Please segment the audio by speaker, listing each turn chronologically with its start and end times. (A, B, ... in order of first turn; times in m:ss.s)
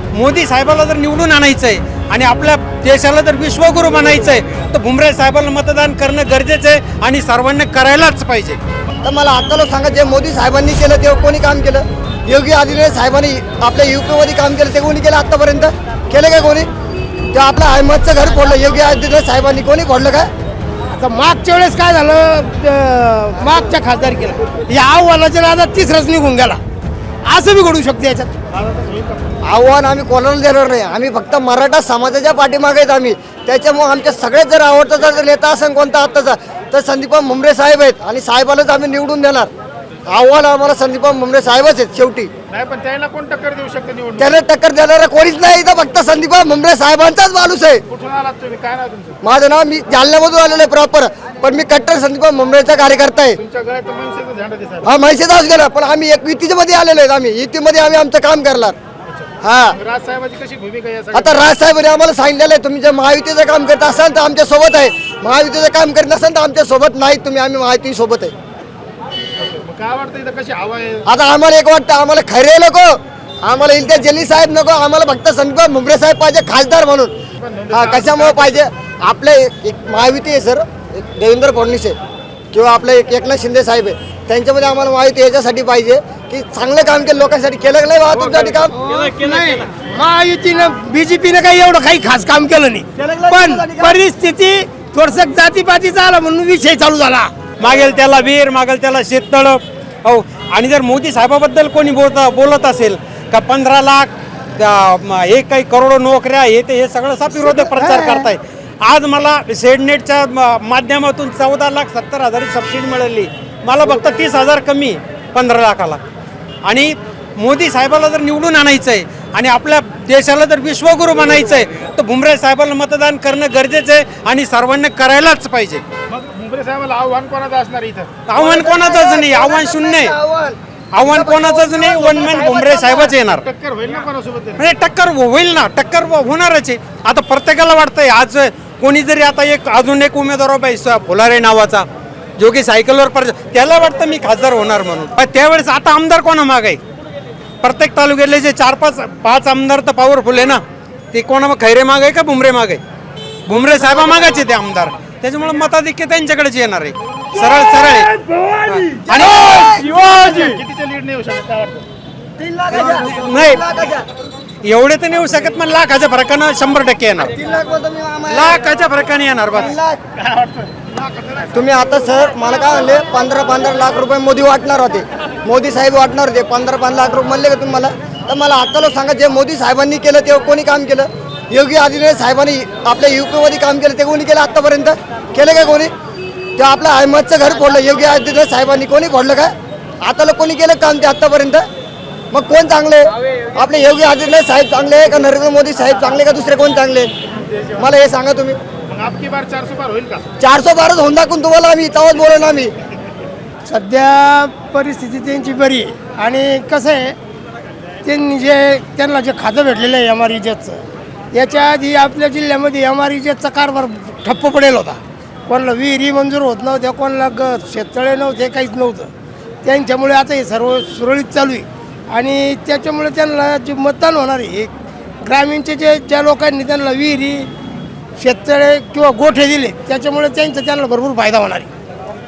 0:00.1-0:08.6 A
0:09.0-0:16.7 B
0:17.3-0:20.3 B
0:21.0-0:26.6 C
0:27.3-0:28.3 C
0:28.5-0:29.4 D
0:29.5-0:39.5 B
0:40.1-0:42.3 B
0:42.5-0:44.4 D
0:44.2-0:47.8 B
0:47.9-0:49.2 D
0:49.2-0:53.4 B
0:53.4-0:54.9 D
0:54.8-0:58.8 B
0:59.1-1:01.5 D
0:59.4-0:59.8 B
1:01.1-1:08.3 B
1:09.4-1:11.0 D
1:11.1-1:17.1 B
1:17.4-1:18.6 D
1:17.7-1:22.0 B
1:22.5-1:28.8 B
1:28.8-1:37.3 C
1:33.0-1:34.0 B
1:37.6-1:56.0 A
1:47.4-1:48.3 C
1:56.6-2:05.8 A
2:06.1-2:08.2 D
2:08.3-2:10.1 A
2:08.4-2:12.6 B
2:10.9-2:13.5 A
2:12.2-2:14.7 D
2:14.6-2:21.8 A
2:22.4-2:26.8 A
2:27.6-2:30.6 A
2:31.1-2:32.8 A
2:33.5-2:38.1 A
2:38.7-2:40.6 A
2:39.1-2:39.8 B
2:39.8-2:41.8 D
2:42.4-2:44.0 B
2:42.7-2:43.6 A
2:44.6-2:47.3 A
2:47.2-2:48.6 B
2:48.3-2:49.8 A
2:49.5-2:50.0 B
2:50.2-2:51.7 D
2:51.5-3:05.9 B
3:06.6-3:11.6 B
3:12.3-3:17.1 B
3:17.8-3:18.6 B
3:18.9-3:20.3 D
3:20.4-3:22.7 B
3:23.7-3:27.2 C
3:28.0-3:30.8 C
3:31.3-3:39.1 C
3:39.6-3:44.7 C
3:45.2-3:47.5 C
3:48.2-3:51.7 C